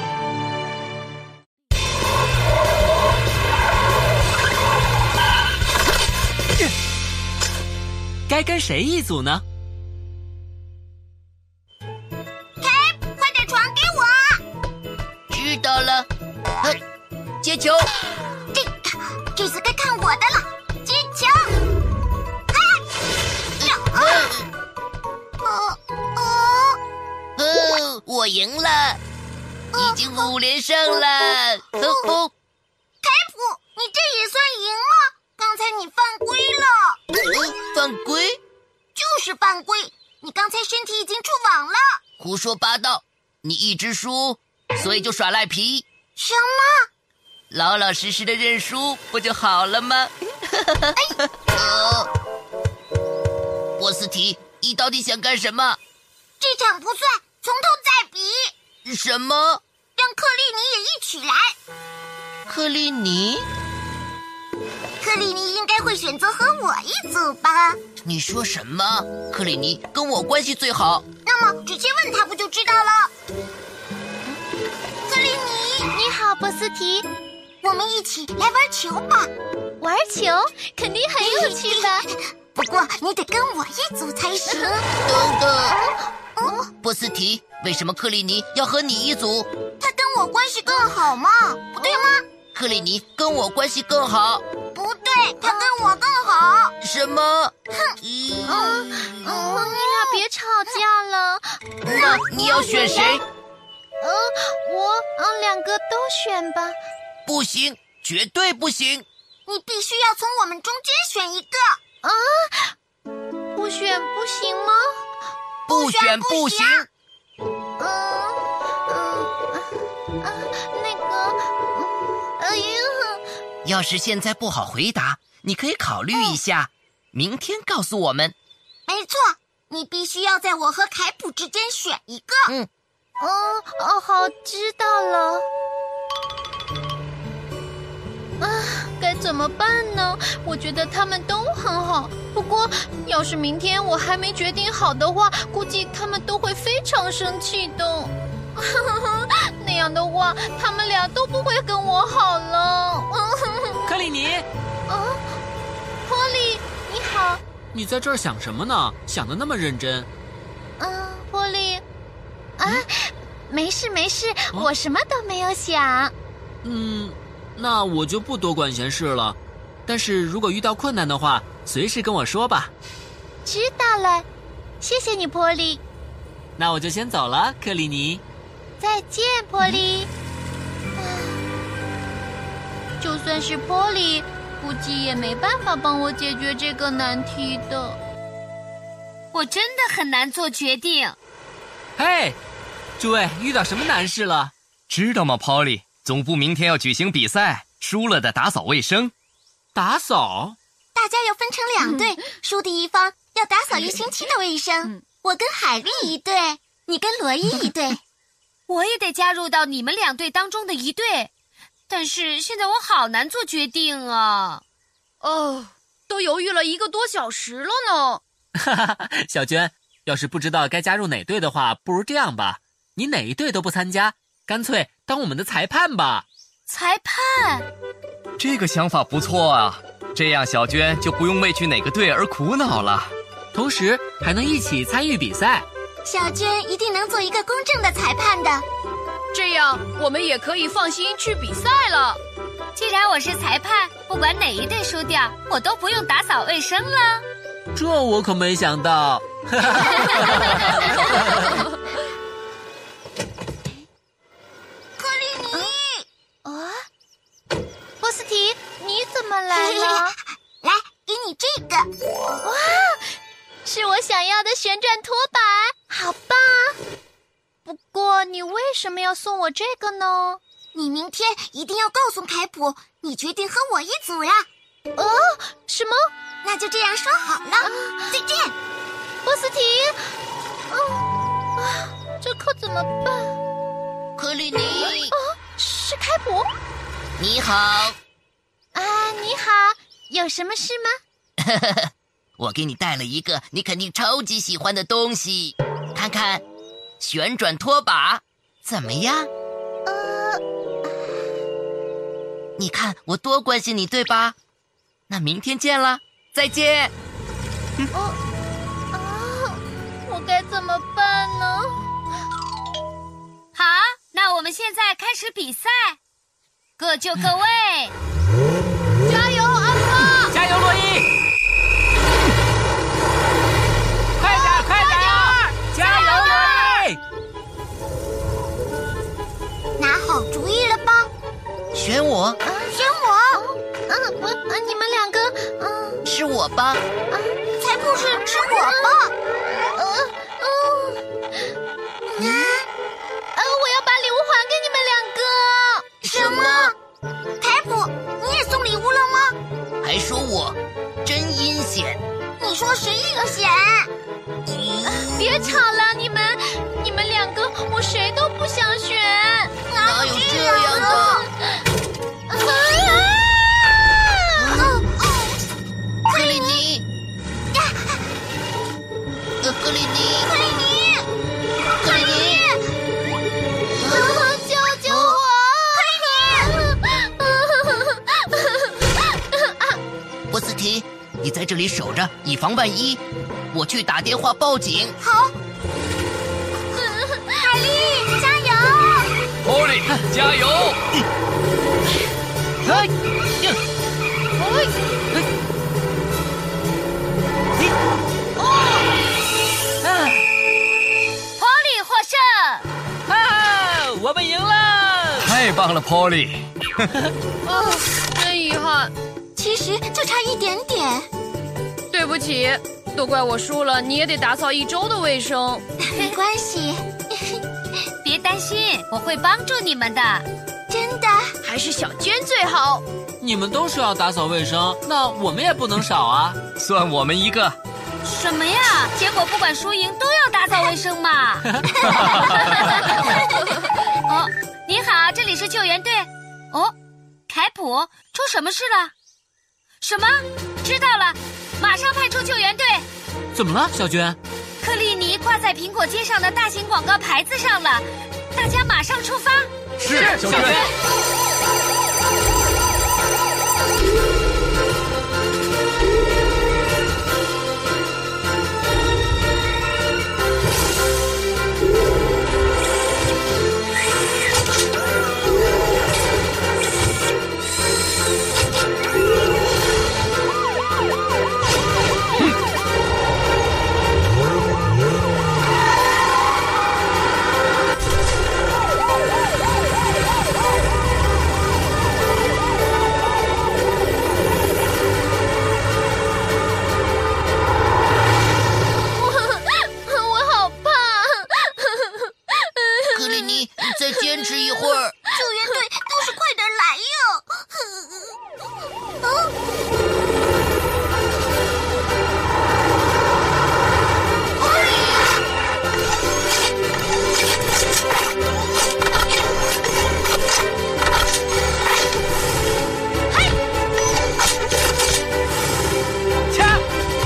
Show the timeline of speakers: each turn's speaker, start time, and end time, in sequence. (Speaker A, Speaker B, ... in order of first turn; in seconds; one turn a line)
Speaker A: 8.3-9.4
Speaker B: 12.6-14.4
Speaker C: 15.3-16.1
Speaker C: 17.4-17.9
Speaker B: 18.5-21.5
Speaker B: 22.5-22.8
Speaker B: 23.6-24.3
Speaker C: 23.6-24.4
Speaker B: 25.4-26.8
Speaker C: 27.4-29.0
Speaker B: 29.7-30.3
Speaker C: 29.8-32.3
Speaker B: 33.0-37.0
Speaker C: 37.7-38.4
Speaker B: 38.9-42.0
Speaker C: 42.2-45.8
Speaker B: 46.1-46.9
Speaker C: 47.5-51.0
Speaker B: 51.0-51.8
Speaker C: 51.5-52.1
Speaker C: 53.8-55.8
Speaker B: 56.4-58.5
Speaker C: 58.8-59.6
Speaker B: 60.0-61.5
Speaker C: 62.5-63.5
Speaker B: 65.0-67.8
Speaker C: 68.0-71.0
Speaker B: 71.2-73.1
Speaker B: 75.0-75.9
Speaker D: 75.9-77.0
Speaker B: 77.6-79.3
Speaker D: 79.8-82.0
Speaker B: 81.2-84.9
Speaker C: 85.0-85.8
Speaker D: 85.7-86.6
Speaker B: 86.3-86.7
Speaker C: 86.8-89.5
Speaker B: 89.8-92.2
Speaker D: 91.8-92.1
Speaker C: 92.5-94.4
Speaker B: 94.7-96.7
Speaker C: 96.8-98.6
Speaker B: 97.7-98.0
Speaker D: 98.5-101.4
Speaker B: 98.6-100.8
Speaker C: 101.8-103.2
Speaker D: 104.0-106.8
Speaker C: 107.2-109.0
Speaker B: 109.5-111.8
Speaker D: 112.0-112.7
Speaker D: 113.5-115.0
Speaker C: 115.7-116.9
Speaker B: 115.7-116.9
Speaker D: 117.8-123.2
Speaker C: 123.6-128.3
Speaker B: 128.9-132.5
Speaker D: 133.2-135.5
Speaker D: 138.4-154.0
Speaker A: 153.8-154.5
Speaker D: 154.9-155.3
Speaker D: 156.0-157.4
Speaker A: 157.7-160.1
Speaker D: 160.8-161.8
Speaker D: 162.6-166.1
Speaker A: 166.6-172.7
Speaker D: 173.4-174.2
Speaker D: 174.8-175.8
Speaker A: 176.6-178.2
Speaker D: 178.8-180.1
Speaker D: 181.0-181.4
Speaker D: 183.0-188.0
Speaker E: 189.3-191.2
Speaker A: 192.0-192.4
Speaker A: 193.0-194.5
Speaker F: 194.9-199.1
Speaker A: 199.7-200.6
Speaker B: 200.9-208.0
Speaker E: 208.7-211.3
Speaker E: 211.9-214.6
Speaker G: 215.2-218.2
Speaker A: 218.6-226.2
Speaker E: 226.7-227.7
Speaker F: 228.4-233.1
Speaker A: 233.5-235.7
Speaker B: 236.0-238.6
Speaker G: 239.3-242.2
Speaker E: 242.7-247.2
Speaker A: 247.7-251.6
Speaker B: 255.0-256.0
Speaker D: 256.4-256.8
Speaker D: 258.0-260.1
Speaker B: 259.5-261.9
Speaker D: 262.4-263.1
Speaker D: 263.6-266.8
Speaker D: 267.6-270.4
Speaker B: 270.7-274.5
Speaker D: 274.9-276.0
Speaker B: 276.4-278.5
Speaker D: 277.6-278.0
Speaker D: 279.2-280.1
Speaker D: 280.7-283.4
Speaker C: 284.2-285.1
Speaker D: 285.1-286.5
Speaker C: 287.2-288.0
Speaker D: 288.7-291.0
Speaker C: 291.4-296.4
Speaker C: 297.0-299.3
Speaker D: 299.9-300.4
Speaker C: 302.6-304.3
Speaker C: 305.1-306.9
Speaker D: 307.9-308.2
Speaker D: 308.9-311.8
Speaker E: 313.5-316.0
Speaker E: 316.8-317.9
Speaker G: 319.1-320.3
Speaker A: 320.3-321.1
Speaker A: 324.2-327.0
Speaker G: 324.4-326.2
Speaker E: 326.2-326.6
Speaker B: 329.8-331.1
Speaker C: 331.7-332.4
Speaker D: 332.4-332.8
Speaker B: 332.7-333.4
Speaker D: 333.4-336.0
Speaker C: 336.0-336.8
Speaker B: 337.6-339.1
Speaker D: 339.7-341.0
Speaker B: 342.2-342.6
Speaker D: 342.2-342.5
Speaker D: 343.3-346.0
Speaker B: 346.0-346.7
Speaker C: 346.1-346.7
Speaker B: 347.4-349.4
Speaker C: 349.8-352.0
Speaker B: 352.4-353.9
Speaker C: 354.4-355.1
Speaker D: 355.0-359.5
Speaker B: 359.7-361.2
Speaker C: 359.8-361.2
Speaker D: 362.3-363.6
Speaker B: 364.5-365.4
Speaker B: 366.1-366.6
Speaker C: 366.1-366.8
Speaker B: 367.5-368.1
Speaker C: 369.4-370.3
Speaker B: 370.2-371.1
Speaker C: 371.8-372.4
Speaker B: 371.8-372.7
Speaker D: 373.9-375.9
Speaker C: 374.9-375.2
Speaker B: 375.8-376.5
Speaker D: 376.4-379.8
Speaker C: 380.3-384.9
Speaker B: 385.0-385.3
Speaker D: 386.8-387.2
Speaker B: 387.3-389.2
Speaker F: 389.4-390.8
Speaker F: 392.6-392.9
Speaker G: 394.4-394.7
Speaker G: 398.4-398.9
Speaker A: 399.8-400.2
Speaker E: 401.4-402.7
Speaker A: 403.1-405.4
Speaker F: 405.2-406.5
Speaker G: 407.4-408.9
Speaker B: 409.4-411.1
Speaker G: 411.9-415.6
Speaker B: 415.8-417.4
Speaker E: 418.0-420.2
Speaker B: 420.7-421.3
Speaker G: 421.4-422.8
Speaker A: 423.2-426.4
Speaker F: 426.6-427.6
Speaker E: 428.0-436.7
Speaker F: 431.8-432.2
Speaker A: 432.7-433.1
Speaker E: 437.3-438.9
Speaker E: 439.8-442.9
Speaker A: 443.3-444.2
Speaker E: 444.6-450.7
Speaker A: 449.8-450.7
Speaker F: 449.8-450.6
Speaker D: 488.9-493.7
Speaker C: 492.9-494.9
Speaker B: 495.1-498.1
Speaker B: 499.0-499.3
Speaker B: 504.4-505.1